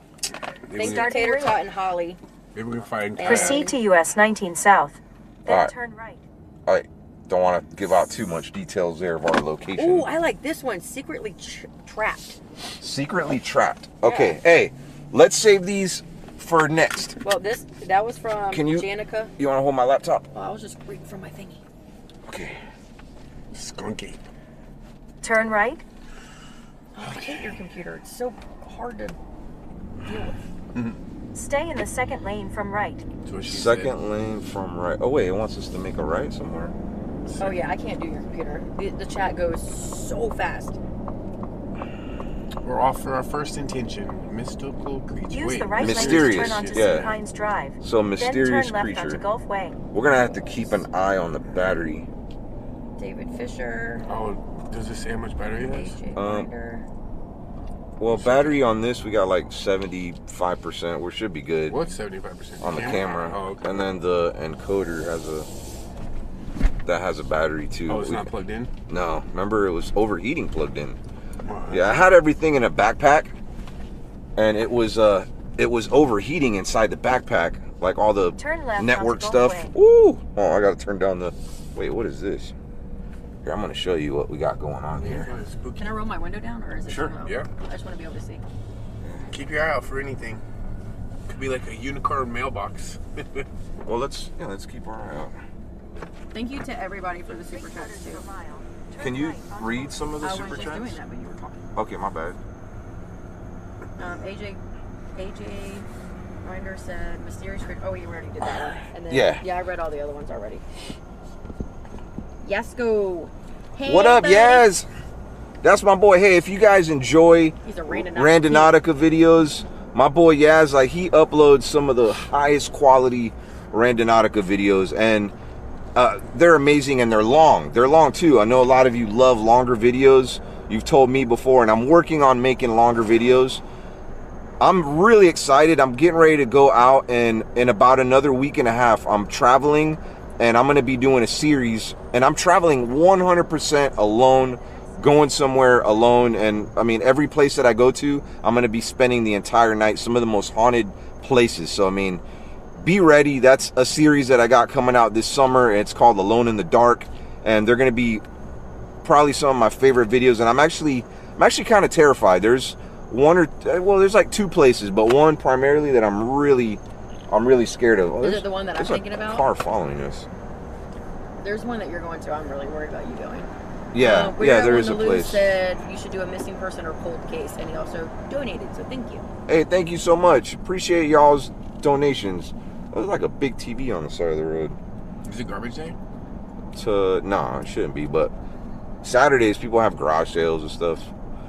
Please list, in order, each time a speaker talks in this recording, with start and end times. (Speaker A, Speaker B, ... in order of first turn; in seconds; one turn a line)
Speaker A: 0.6-1.1
Speaker B: 0.7-1.6
Speaker C: 0.8-2.2
Speaker A: 2.5-3.7
Speaker C: 3.2-3.8
Speaker B: 3.2-6.3
Speaker D: 6.7-10.1
Speaker C: 9.8-12.4
Speaker D: 12.8-17.2
Speaker C: 14.0-14.4
Speaker C: 17.2-19.3
Speaker D: 18.5-20.2
Speaker C: 20.3-21.6
Speaker D: 22.2-22.6
Speaker A: 23.5-24.2
Speaker B: 25.2-25.8
Speaker C: 26.9-29.2
Speaker C: 30.1-30.4
Speaker A: 30.7-31.0
Speaker B: 31.3-33.1
Speaker A: 33.2-33.9
Speaker D: 33.5-36.8
Speaker A: 37.2-37.6
Speaker C: 37.4-40.8
Speaker A: 42.6-47.1
Speaker B: 45.3-49.9
Speaker D: 45.8-47.1
Speaker D: 47.8-49.2
Speaker D: 49.9-52.1
Speaker C: 53.0-54.1
Speaker A: 54.1-56.0
Speaker C: 55.6-56.9
Speaker D: 56.1-56.5
Speaker D: 58.0-61.8
Speaker A: 58.1-58.6
Speaker A: 61.7-64.0
Speaker D: 62.6-65.5
Speaker D: 66.8-68.3
Speaker A: 67.9-68.7
Speaker D: 68.9-71.0
Speaker A: 71.4-72.1
Speaker D: 71.7-73.3
Speaker D: 74.4-82.5
Speaker B: 78.4-79.7
Speaker D: 83.4-85.3
Speaker A: 85.0-86.0
Speaker C: 85.8-88.4
Speaker D: 86.9-87.1
Speaker A: 87.2-87.5
Speaker D: 89.0-89.3
Speaker A: 89.3-90.4
Speaker A: 91.3-93.5
Speaker D: 93.8-95.3
Speaker C: 96.3-98.3
Speaker B: 97.3-100.7
Speaker D: 99.0-101.0
Speaker C: 100.2-101.7
Speaker D: 101.8-102.4
Speaker C: 104.0-104.6
Speaker C: 105.2-105.9
Speaker C: 106.4-110.6
Speaker D: 109.1-109.4
Speaker C: 112.4-114.7
Speaker D: 113.8-114.9
Speaker D: 115.6-125.3
Speaker C: 117.6-118.8
Speaker D: 126.0-133.6
Speaker D: 134.6-152.2
Speaker B: 144.6-145.3
Speaker D: 152.8-158.2
Speaker D: 159.0-170.3
Speaker C: 168.2-169.5
Speaker C: 171.4-179.3
Speaker D: 173.9-175.6
Speaker D: 179.5-184.8
Speaker A: 185.2-186.0
Speaker D: 186.7-188.3
Speaker D: 189.0-191.1